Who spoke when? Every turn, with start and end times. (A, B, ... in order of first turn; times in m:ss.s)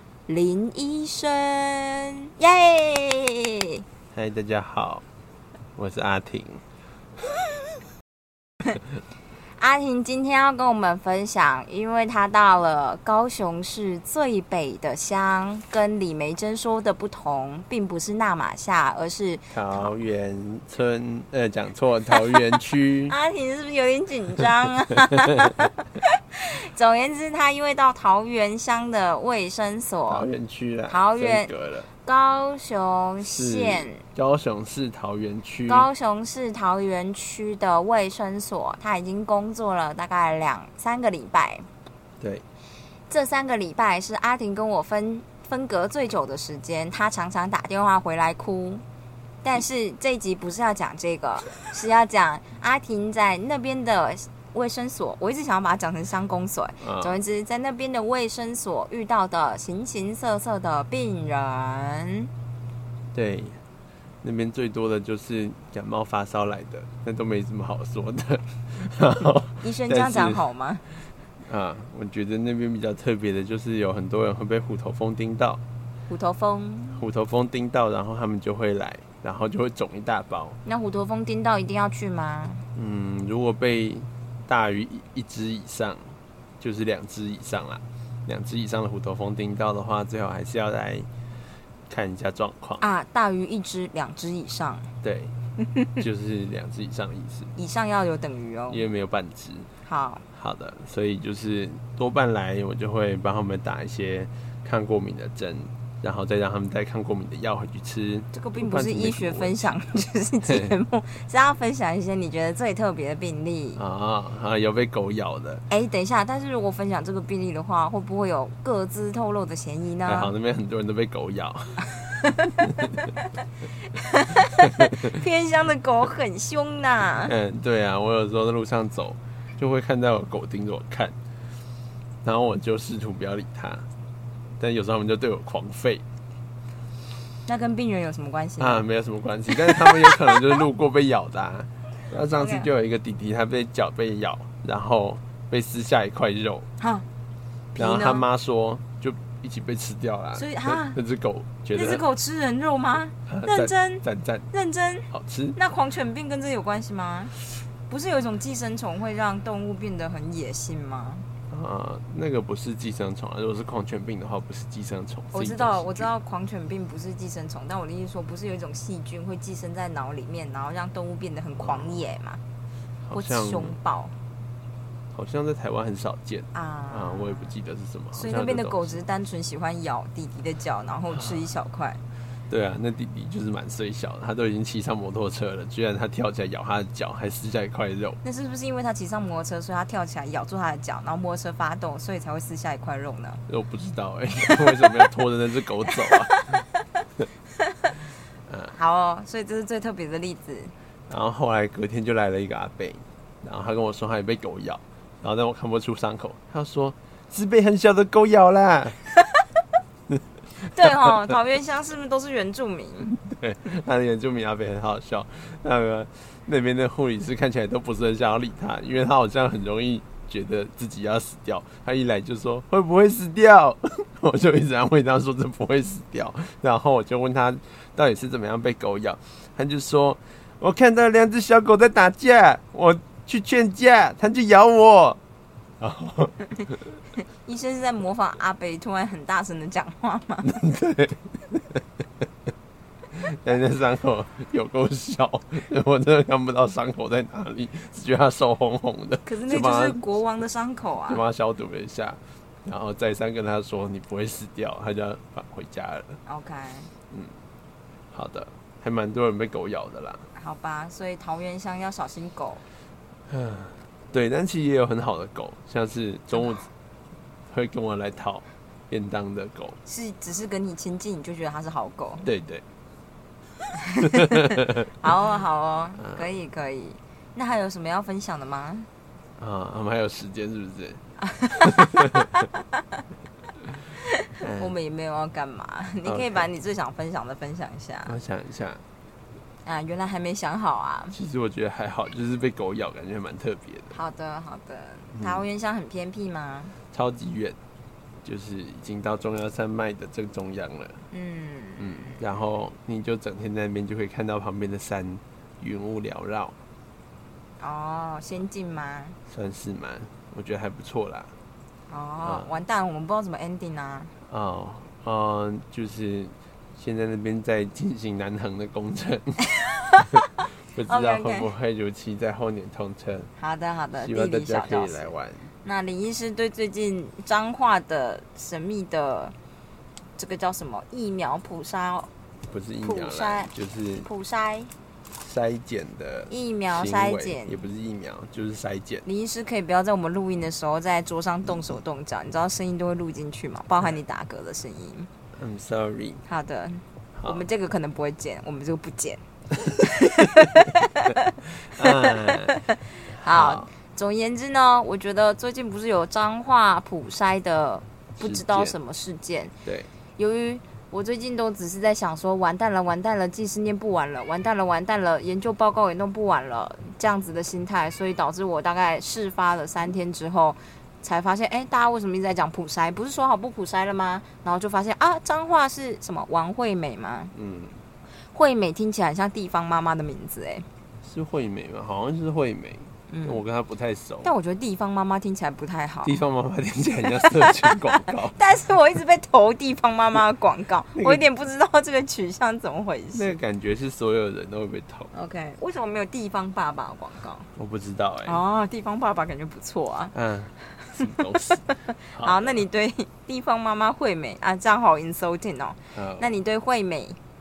0:00.3-0:03.8 A
0:04.1-0:05.0 B
0:05.8-0:06.6 B
0:09.6-0:19.9 A
0:19.5-0:23.2 B
0:23.1-0:30.3 A
0:30.1-0:31.9 B
0:30.9-0:31.5 A
0:32.0-0:34.0 A
0:33.2-0:35.9 B
0:35.7-0:41.7 A
0:43.1-0:48.8 A
0:49.4-1:02.3 A
0:56.8-0:57.2 B
1:03.1-1:03.6 B
1:04.2-1:10.4 B
1:09.6-1:10.9 A
1:11.5-1:15.6 B
1:16.1-1:17.0 A
1:16.9-1:20.6 B
1:20.6-1:22.6 A
1:22.7-1:31.1 B
1:31.9-1:32.8 B
1:32.8-1:34.9 A
1:35.0-1:35.4 B
1:36.0-1:37.5 B
1:37.6-1:38.9 A
1:38.7-1:39.7 B
1:39.9-1:40.2 A
1:40.3-1:49.8 B
1:48.3-1:53.8 A
1:50.5-1:50.8 B
1:53.8-1:55.6 B
1:55.7-2:00.3 A
2:00.1-2:01.9 B
2:02.0-2:02.6 A
2:02.6-2:03.0 B
2:03.8-2:07.3 A
2:04.8-2:05.1 B
2:07.2-2:11.2 B
2:12.2-2:13.9 B
2:14.6-2:16.0 B
2:17.5-2:18.8 A
2:18.6-2:26.7 B
2:19.5-2:20.5 A
2:22.3-2:22.7 A
2:26.8-2:27.1 A
2:27.8-2:28.2 A
2:27.8-2:32.0 B
2:30.3-2:31.0 A
2:31.7-2:37.4 A
2:33.3-2:34.5 B
2:35.1-2:35.6 B
2:37.9-2:41.3 A
2:41.5-2:46.1 B
2:45.3-2:52.4 A
2:51.6-2:52.0 B
2:53.0-2:53.8 B
2:53.1-2:54.2 A
2:55.1-2:59.0 B
2:56.5-2:57.6 A
2:58.1-3:02.0 A
3:01.1-3:01.4 B
3:02.5-3:08.2 B
3:08.2-3:13.4 A
3:13.5-3:16.6 B
3:14.4-3:15.1 A
3:15.9-3:16.7 A
3:17.6-3:18.0 A
3:18.5-3:18.8 B
3:18.7-3:20.7 A
3:21.1-3:29.0 B
3:30.6-3:33.2 A
3:30.8-3:31.2 B
3:33.2-3:55.2 B
3:55.8-3:56.5 B
3:57.4-4:00.6 A
4:00.4-4:01.8 B
4:03.1-4:10.0 B
4:09.3-4:11.2 A
4:11.1-4:16.2 B
4:16.3-4:16.9 A
4:18.1-4:20.3 B
4:20.4-4:22.6 A
4:23.3-4:26.6 B
4:27.5-4:29.8 B
4:29.9-4:32.3 A
4:32.2-4:32.6 B
4:33.8-4:38.9 A
4:34.1-4:34.9 B
4:36.0-4:36.3 B
4:39.4-4:41.0 B
4:41.2-4:42.6 A
4:41.6-4:42.3 B
4:44.0-4:48.2 A
4:44.4-4:44.7 B
4:46.0-4:46.5 B
4:48.1-4:48.8 B
4:49.6-4:51.2 A
4:51.1-4:54.0 B
4:53.9-4:56.7 A
4:55.1-4:55.4 B
4:56.9-4:57.6 B
4:58.2-5:01.0 B
5:01.1-5:02.2 A
5:01.8-5:06.6 B
5:07.6-5:09.2 A
5:09.3-5:11.3 B
5:11.9-5:14.1 A
5:12.2-5:12.5 B
5:14.3-5:19.4 B
5:19.6-5:20.2 A
5:20.7-5:23.3 B
5:20.9-5:21.5 A
5:23.4-5:25.1 A
5:24.0-5:25.5 B
5:25.6-5:29.3 A
5:30.2-5:32.1 A
5:32.5-5:34.1 B
5:32.8-5:33.5 A
5:34.0-5:34.7 A
5:35.2-5:39.0 B
5:36.3-5:37.6 A
5:39.0-5:45.1 A
5:45.4-5:46.2 B
5:46.3-5:59.5 A
5:47.2-5:47.4 B
5:51.7-5:52.6 B
5:53.1-5:53.7 B
5:58.2-5:58.8 B
5:59.6-5:59.9 B
6:00.2-6:17.3 A
6:17.3-6:17.8 B
6:18.3-6:20.7 A
6:21.0-6:24.3 B
6:23.1-6:23.4 A
6:24.2-6:26.2 A
6:26.0-6:28.4 B
6:27.2-6:33.3 A
6:31.0-6:31.2 B
6:33.1-6:35.1 B
6:35.1-6:37.5 A
6:37.6-6:38.4 B
6:38.2-6:40.2 A
6:40.1-6:42.6 B
6:40.7-6:47.2 A
6:45.9-6:46.3 B